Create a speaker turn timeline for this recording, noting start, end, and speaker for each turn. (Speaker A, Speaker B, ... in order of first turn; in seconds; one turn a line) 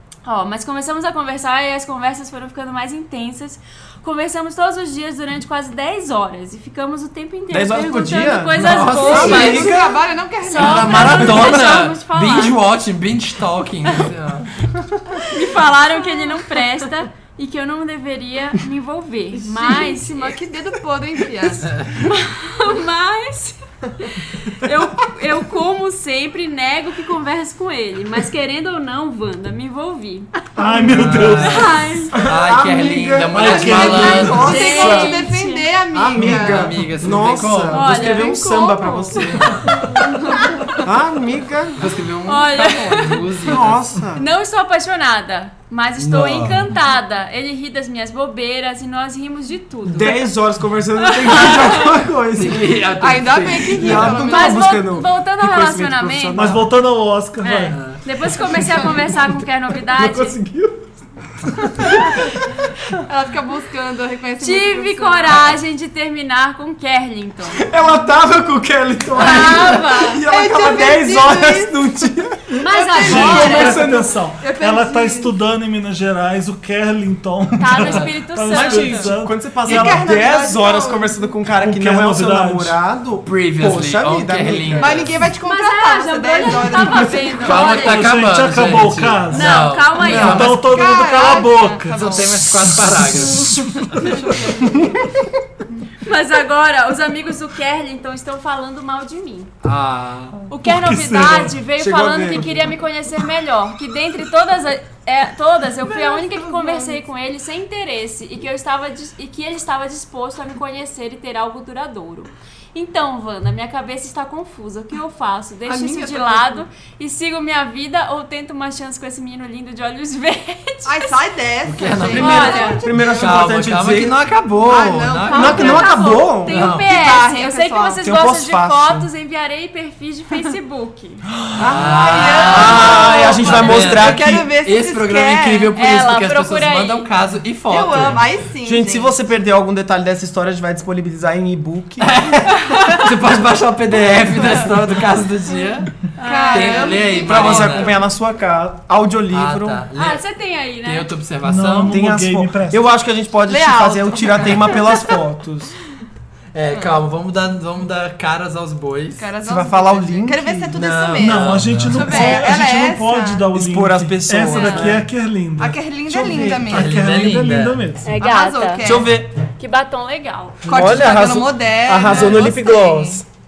Speaker A: 0.2-9.8
Speaker B: 7.5-10.0
Speaker C: 8.6-9.6
Speaker D: 9.0-11.6
Speaker A: 10.4-12.6
Speaker C: 10.6-15.2
Speaker A: 15.3-20.3
Speaker D: 19.3-21.7
Speaker C: 21.7-22.0
Speaker A: 22.0-30.3
Speaker E: 30.6-31.8
Speaker C: 30.8-34.5
Speaker A: 31.3-32.2
Speaker B: 32.1-35.2
Speaker E: 33.3-34.7
Speaker D: 33.6-36.8
Speaker A: 33.9-35.7
Speaker B: 35.9-39.6
Speaker C: 36.1-38.0
Speaker A: 37.7-39.0
Speaker D: 38.0-40.8
Speaker C: 39.1-39.7
Speaker B: 40.8-41.8
Speaker C: 41.8-43.9
Speaker A: 42.3-43.4
Speaker B: 43.4-44.2
Speaker A: 44.2-50.3
Speaker C: 46.0-46.7
Speaker B: 49.9-52.8
Speaker A: 51.0-51.9
Speaker C: 52.4-54.3
Speaker D: 53.0-54.6
Speaker B: 53.8-56.6
Speaker A: 54.3-56.5
Speaker E: 56.3-57.8
Speaker A: 57.4-60.4
Speaker C: 57.7-58.0
Speaker B: 59.3-60.9
Speaker B: 61.6-62.0
Speaker D: 63.0-65.6
Speaker A: 64.4-67.6
Speaker B: 67.5-74.2
Speaker A: 69.1-70.2
Speaker D: 70.2-71.8
Speaker A: 72.6-73.9
Speaker D: 72.7-75.3
Speaker E: 72.9-80.0
Speaker A: 77.6-79.1
Speaker C: 77.8-78.1
Speaker B: 78.5-85.1
Speaker D: 79.6-81.3
Speaker E: 81.6-82.8
Speaker C: 83.3-85.1
Speaker D: 84.8-87.8
Speaker A: 85.4-88.1
Speaker C: 87.4-91.0
Speaker E: 87.8-95.1
Speaker A: 89.3-90.6
Speaker D: 90.6-92.5
Speaker C: 91.9-93.6
Speaker D: 93.9-95.1
Speaker A: 96.0-99.5
Speaker C: 99.6-100.5
Speaker A: 100.5-121.1
Speaker E: 100.6-101.6
Speaker B: 101.8-102.8
Speaker D: 105.8-107.0
Speaker D: 115.7-116.6
Speaker D: 120.9-123.5
Speaker C: 121.7-122.6
Speaker A: 122.2-122.8
Speaker B: 122.2-124.2
Speaker C: 123.2-125.9
Speaker D: 124.6-125.9
Speaker A: 125.3-131.2
Speaker B: 125.3-126.6
Speaker C: 126.5-126.9
Speaker D: 126.8-128.0
Speaker B: 128.0-129.1
Speaker B: 131.6-134.5
Speaker C: 131.6-138.3
Speaker D: 131.7-135.7
Speaker A: 135.7-137.1
Speaker D: 137.7-139.2
Speaker B: 138.6-142.2
Speaker C: 142.0-148.0
Speaker A: 146.2-147.6
Speaker D: 146.2-147.9
Speaker B: 147.2-149.8
Speaker C: 149.3-150.2
Speaker A: 150.0-151.1
Speaker C: 150.8-151.9
Speaker E: 151.4-152.8
Speaker B: 151.9-155.7
Speaker D: 153.5-155.2
Speaker C: 156.5-159.3
Speaker D: 156.7-157.0
Speaker D: 159.2-163.5
Speaker B: 159.4-160.7
Speaker C: 160.7-162.4
Speaker E: 161.2-168.2
Speaker B: 163.5-165.1
Speaker D: 164.5-164.9
Speaker D: 165.6-167.0
Speaker C: 166.7-167.8
Speaker A: 168.0-169.0
Speaker D: 168.2-169.1
Speaker B: 168.8-169.3
Speaker A: 169.6-170.7
Speaker D: 170.7-173.2
Speaker B: 170.7-173.2
Speaker E: 170.7-171.2